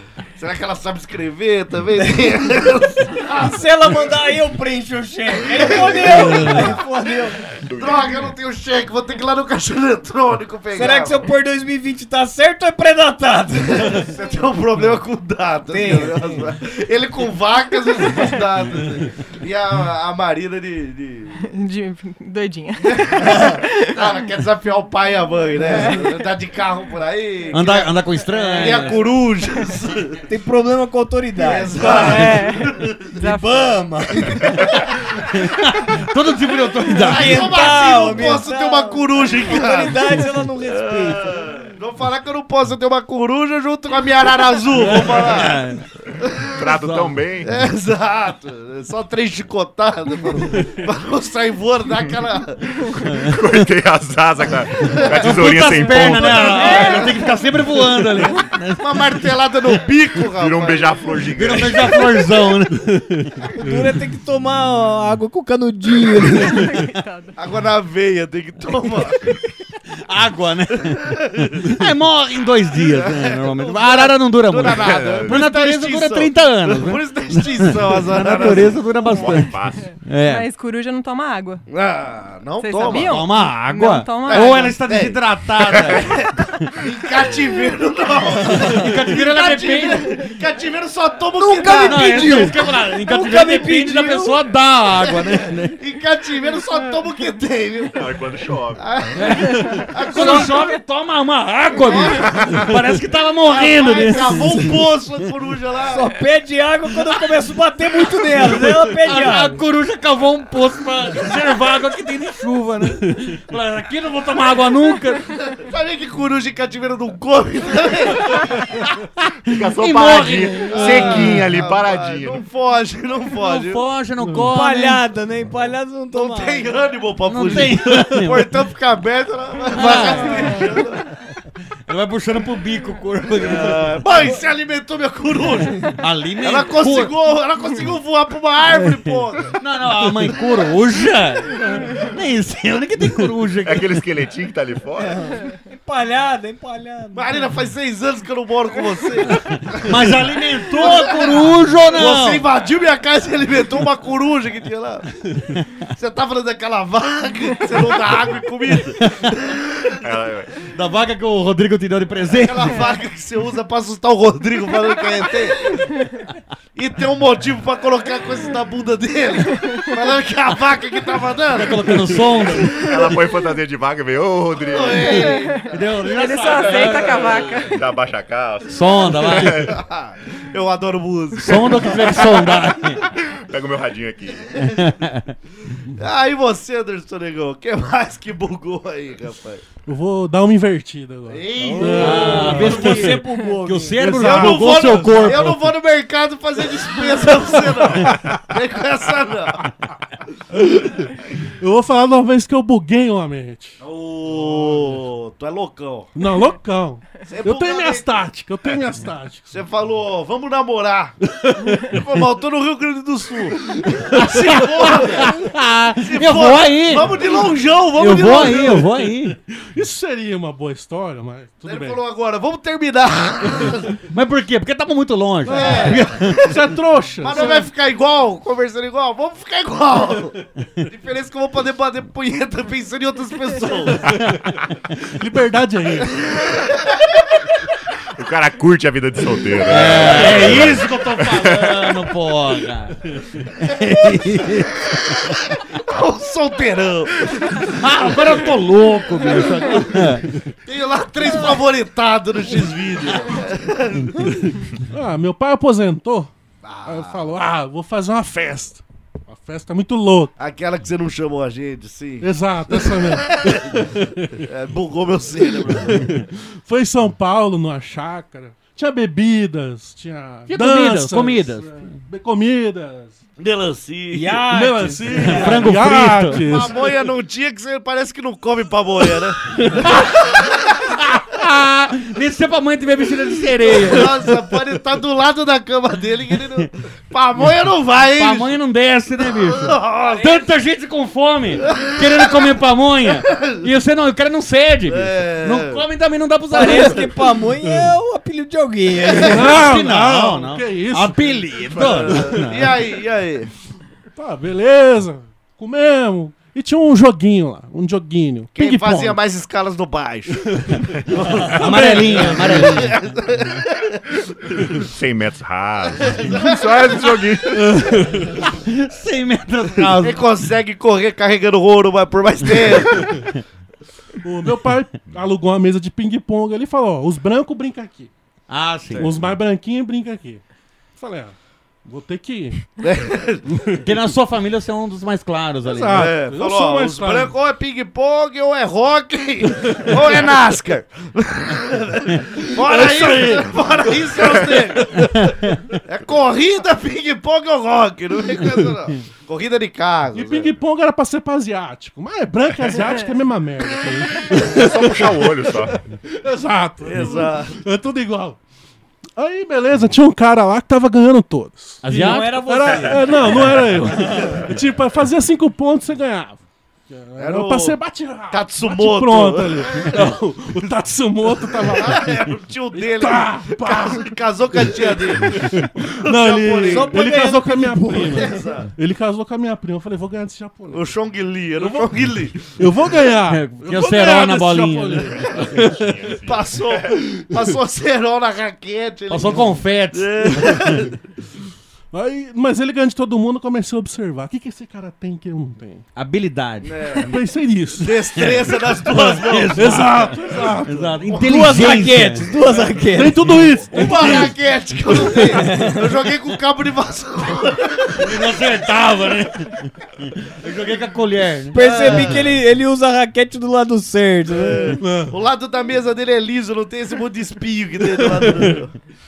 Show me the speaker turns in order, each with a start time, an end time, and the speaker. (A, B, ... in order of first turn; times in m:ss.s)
0:00.4-0:04.0 A
0:03.3-0:07.4 B
0:05.5-0:06.8 A
0:07.6-0:08.2 C
0:07.8-0:11.3 A
0:10.7-0:14.1 B
0:13.8-0:21.4 A
0:15.7-0:16.4 B
0:21.4-0:24.1 D
0:22.8-0:28.0 A
0:25.6-0:26.2 D
0:27.5-0:29.0 E
0:28.3-0:28.8 D
0:28.6-0:30.2 A
0:30.3-0:32.4 B
0:31.4-0:33.1 A
0:31.7-0:33.8 D
0:31.9-0:32.3 E
0:33.2-0:34.8 B
0:35.2-0:37.9 E
0:37.0-0:41.5 B
0:37.0-0:45.6 A
0:44.8-0:45.8 E
0:46.6-0:47.5 C
0:46.8-0:47.2 E
0:47.4-0:52.7 A
0:53.2-0:56.5 C
0:54.9-0:55.3 A
0:54.9-0:59.2 E
0:56.0-0:57.5 D
0:56.8-0:57.1 A
0:58.8-1:01.2 A
1:00.3-1:02.1 C
1:01.4-1:03.5 E
1:03.5-1:06.8 B
1:06.4-1:07.4 D
1:07.4-1:09.2 A
1:10.0-1:20.5 E
1:10.8-1:11.8 A
1:12.8-1:18.9 A
1:14.7-1:15.4 C
1:18.8-1:21.6 D
1:19.1-1:19.9 C
1:21.7-1:23.2 A
1:22.6-1:24.8 D
1:22.9-1:26.1 E
1:24.2-1:32.2 A
1:28.7-1:30.1 E
1:31.4-1:34.4 B
1:31.7-1:35.8 E
1:35.8-1:38.0 A
1:38.0-1:38.8 C
1:38.8-1:40.7 A
1:39.2-1:44.6 E
1:40.2-1:40.6 B
1:41.8-1:42.6 A
1:42.2-1:42.7 C
1:43.4-1:46.1 A
1:45.9-1:49.6 B
1:48.4-1:55.3 E
1:55.5-1:58.8 A
1:59.4-2:02.4 C
1:59.5-2:01.3 E
2:00.7-2:03.8 A
2:03.4-2:05.0 E
2:04.2-2:04.5 F
2:04.5-2:06.8 B
2:06.1-2:11.0 A
2:07.3-2:08.5 E
2:09.7-2:10.7 E
2:09.8-2:10.2 B
2:11.9-2:14.0 E
2:13.4-2:19.6 A
2:16.0-2:17.1 E
2:19.6-2:23.9 E
2:23.6-2:25.4 C
2:25.0-2:27.3 B
2:27.1-2:30.1 A
2:29.7-2:32.5 E
2:30.7-2:35.0 A
2:36.0-2:40.0 A
2:40.0-2:40.7 C
2:40.7-2:42.8 E
2:42.2-2:45.7 A
2:46.8-2:52.0 A
2:51.5-2:52.9 E
2:52.5-2:53.2 A
2:52.8-2:55.2 C
2:54.6-2:55.8 A
2:55.1-2:57.9 D
2:55.7-2:57.7 E
2:57.7-2:59.8 C
2:58.7-2:59.7 E
2:59.6-3:02.4 A
3:01.4-3:03.0 E
3:03.3-3:04.6 C
3:04.5-3:04.9 A
3:04.6-3:05.3 E
3:06.0-3:09.7 A
3:09.8-3:13.1 F
3:11.3-3:12.7 A
3:11.6-3:14.0 B
3:11.9-3:15.5 E
3:14.0-3:15.6 F
3:14.2-3:19.6 A
3:18.0-3:18.4 F
3:20.6-3:23.8 F
3:23.8-3:26.1 A
3:24.4-3:24.9 F
3:26.2-3:29.5 F
3:27.3-3:28.1 A
3:29.5-3:31.2 A
3:31.3-3:32.0 F
3:31.8-3:35.4 A
3:34.1-3:37.2 E
3:36.0-3:38.8 A
3:38.0-3:39.4 E
3:38.7-3:42.0 F
3:41.6-3:44.0 A
3:44.1-3:46.4 E
3:45.5-3:46.3 A
3:45.5-3:47.6 F
3:47.2-3:54.1 A
3:54.0-3:56.4 F
3:54.1-3:54.6 E
3:56.2-3:57.2 A
3:58.2-4:02.0 C
3:59.6-4:05.4 E
4:00.4-4:00.6 F
4:04.3-4:08.1 A
4:07.6-4:10.3 E
4:10.7-4:14.4 A
4:14.7-4:16.3 F
4:16.6-4:17.2 A
4:16.8-4:20.3 F
4:20.4-4:26.1 A
4:22.2-4:24.4 F
4:25.9-4:33.2 F
4:30.5-4:31.7 E
4:33.4-4:34.4 A
4:34.1-4:35.7 B
4:34.5-4:36.9 F
4:35.2-4:36.4 E
4:36.4-4:40.7 A
4:39.8-4:40.2 E
4:40.8-4:44.2 E
4:43.7-4:48.6 A
4:48.2-4:57.1 E
4:49.2-4:50.4 A
4:51.7-4:52.4 A
4:53.1-4:53.7 A
4:54.9-4:55.8 A
4:56.5-4:59.6 B
4:57.6-4:57.9 F
4:59.0-4:59.4 A
4:59.2-5:02.3 F
4:59.5-5:02.8 E
5:01.7-5:03.5 A
5:04.2-5:09.2 F
5:08.6-5:14.8 A
5:10.5-5:10.8 F
5:11.4-5:13.0 E
5:11.4-5:12.7 F
5:14.8-5:17.9 C
5:15.9-5:17.1 A
5:17.6-5:18.5 F
5:18.1-5:20.2 E
5:20.0-5:23.1 A
5:24.2-5:28.1 F
5:28.5-5:29.2 E
5:28.9-5:30.4 F
5:31.0-5:32.7 F
5:32.8-5:33.4 A
5:33.5-5:33.8 F
5:33.8-5:36.1 E
5:35.7-5:37.3 F
5:35.9-5:45.1 A
5:42.5-5:43.6 F
5:44.2-5:45.3 F
5:45.2-5:45.6 E
5:45.8-5:50.5 A
5:50.2-5:58.4 F
5:54.4-5:55.8 C
5:56.8-5:57.6 A
5:59.2-6:12.2 F
6:01.8-6:02.9 E
6:01.9-6:04.4 B
6:07.2-6:07.8 A
6:08.3-6:10.1 A
6:11.3-6:17.4 A
6:12.8-6:20.9 F
6:16.8-6:18.2 B
6:17.9-6:18.7 A
6:20.7-6:22.4 A
6:21.6-6:26.2 F
6:23.3-6:25.2 E
6:25.2-6:27.0 C
6:26.2-6:31.0 A
6:29.1-6:30.6 E
6:31.9-6:35.8 F
6:36.0-6:37.2 E
6:36.6-6:37.1 A
6:37.1-6:38.2 F
6:37.8-6:39.8 A
6:38.2-6:42.3 E
6:39.5-6:41.2 F
6:41.1-6:43.4 B
6:42.9-6:44.3 F
6:43.7-6:48.1 A
6:45.3-6:45.8 B
6:48.0-6:52.1 E
6:51.5-6:54.8 B
6:51.6-6:52.4 A
6:54.3-6:58.7 A
6:54.8-6:55.1 F
6:58.2-6:58.5 F